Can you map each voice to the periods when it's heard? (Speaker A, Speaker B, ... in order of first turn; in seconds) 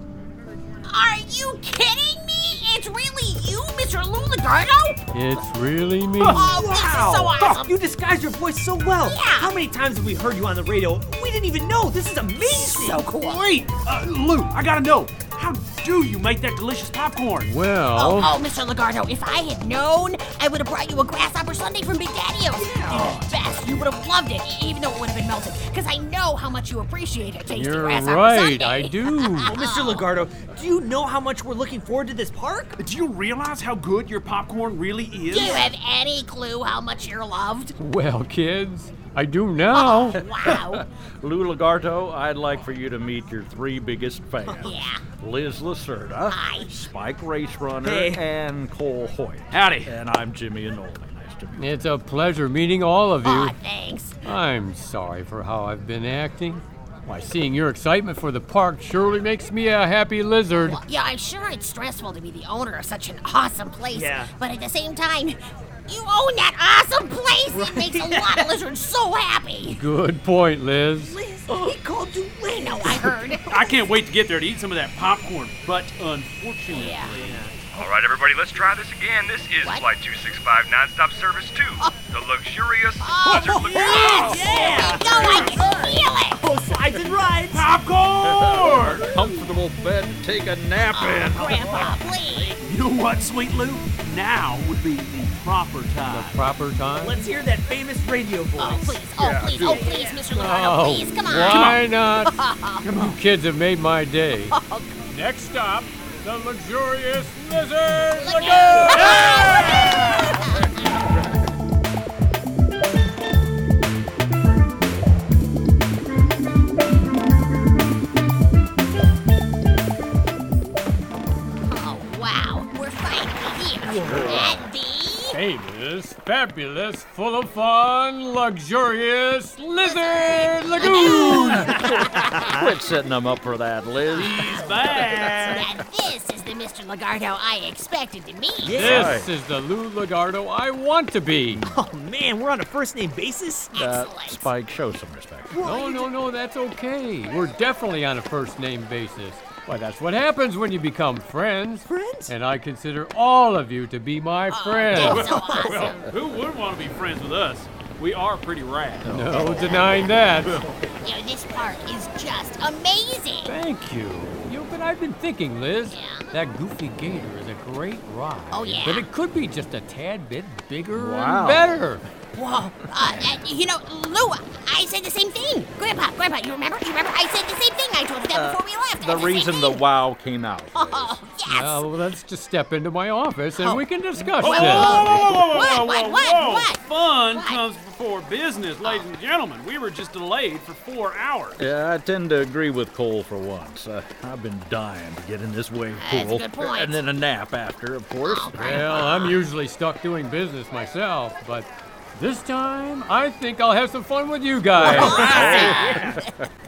Speaker A: 0.9-5.1, 6.3-7.8, 9.0-9.5, 12.4-13.4, 17.9-30.1, 35.3-37.7, 39.7-40.8, 44.6-45.0, 46.3-46.7, 53.2-54.1, 60.6-69.8, 71.1-71.8, 72.4-73.7, 76.7-77.2, 83.0-86.4, 90.9-92.6, 98.6-102.8, 104.5-104.9, 108.2-110.7, 121.6-125.4, 129.8-132.5, 134.2-139.0, 143.7-144.5, 154.5-156.1, 161.0-163.5, 165.9-166.3, 168.5-169.1, 172.3-179.8, 180.8-181.8, 183.6-183.8, 184.4-186.8, 187.3-187.6, 196.0-197.0, 198.2-199.4, 204.8-206.3
Speaker B: 5.1-6.5, 17.4-18.4, 27.5-29.5, 37.8-40.2, 51.6-53.5, 54.2-60.8, 69.7-71.2, 96.1-97.2, 100.3-102.3, 103.0-109.7, 125.3-131.7, 138.7-141.6, 145.6-155.3, 159.1-160.6, 163.4-172.0, 181.5-185.0, 198.6-205.3
Speaker C: 6.2-6.5, 13.0-17.5, 32.8-35.7, 49.5-49.9, 73.5-77.4, 83.9-85.4, 87.5-89.1, 92.6-96.4, 102.8-103.2, 134.1-135.7, 154.9-159.4, 184.4-191.7, 205.3-205.8
Speaker D: 6.4-13.1, 22.6-23.2, 29.5-32.8, 47.8-48.2, 63.9-64.3, 67.5-68.5, 71.5-73.3, 77.1-77.7, 83.3-87.7, 97.0-100.2, 132.4-132.7, 138.6-139.2, 141.7-143.7, 145.5-146.1, 151.9-152.3, 205.2-205.6
Speaker E: 40.1-51.8, 84.0-84.5, 88.2-92.5, 99.2-99.9, 123.9-124.7, 130.8-135.3, 138.8-139.3, 141.5-141.8, 143.8-145.7, 170.9-171.8, 172.9-173.4, 178.3-181.2, 184.2-185.7, 191.6-198.9, 204.8-206.3
Speaker F: 77.7-84.3